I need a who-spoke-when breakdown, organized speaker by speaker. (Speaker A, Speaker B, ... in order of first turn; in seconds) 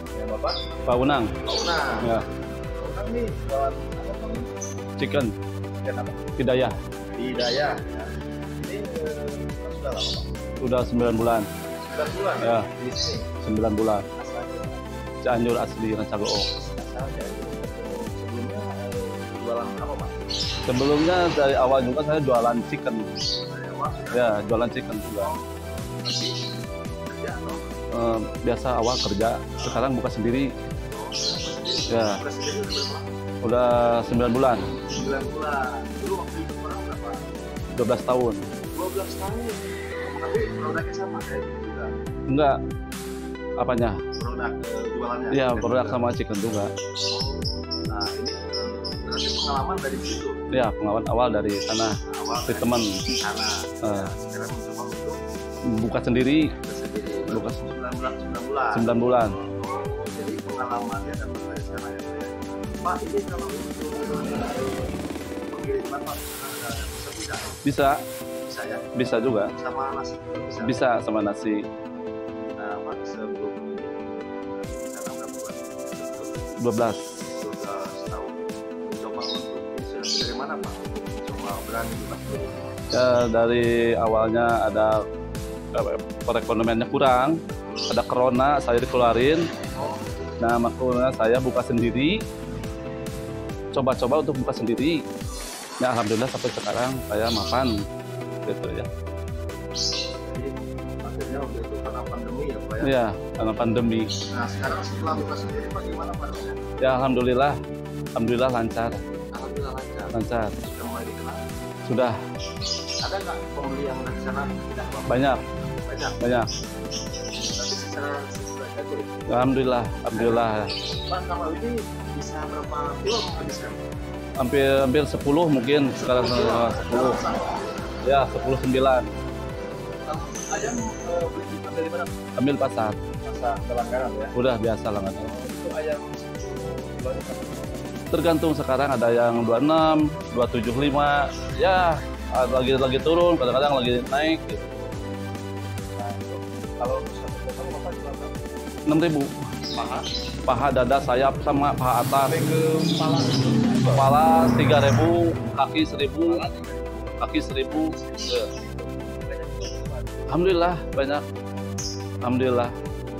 Speaker A: 0.1-0.7, 1.4-2.1, 2.8-4.5, 5.8-6.3, 7.2-10.3, 11.9-13.3, 14.2-14.9, 16.5-20.1, 23.5-24.5, 25.2-26.4, 27.1-27.7, 29.6-29.8, 30.9-33.1, 34.9-37.2, 38.7-41.9, 44.2-46.0, 47.1-50.4, 52.1-55.2, 56.6-58.9, 59.5-65.0, 65.5-67.6, 68.5-68.9, 69.5-70.8, 72.6-76.5, 77.3-82.7, 87.7-87.9, 89.7-90.2, 100.3-103.0, 104.3-106.6, 109.3-111.4, 113.0-116.2, 117.5-119.5, 120.1-120.5, 121.1-123.8, 126.0-127.7, 130.1-132.2, 133.2-134.4, 135.2-138.0, 146.0-148.4, 149.7-150.1, 152.2-154.1, 156.2-160.5
Speaker B: 0.9-1.3, 5.0-5.3, 6.4-6.8, 10.6-11.5, 12.4-12.7, 13.4-14.1, 15.2-16.5, 20.7-23.1, 24.1-25.3, 27.9-30.5, 31.9-32.2, 33.4-34.6, 37.8-38.4, 42.3-42.5, 43.6-44.0, 45.3-46.7, 50.5-52.0, 52.5-52.9, 53.9-54.1, 55.7-56.5, 57.3-57.6, 58.7-59.3, 67.7-68.0, 69.0-69.5, 70.6-71.6, 76.6-77.0, 82.9-85.0, 85.8-87.4, 87.9-89.5, 90.4-92.2, 93.7-95.0, 95.8-97.7, 98.5-98.9, 102.8-104.1, 106.8-107.6, 108.2-109.0, 110.1-110.5, 111.9-112.2, 115.1-115.4, 116.2-116.5, 119.3-120.7, 124.4-127.2, 128.0-129.1, 132.4-133.0, 134.3-135.3, 138.1-144.7, 148.9-149.3, 150.5-152.3, 153.9-156.4, 157.2-157.9, 160.3-161.2, 162.2-162.7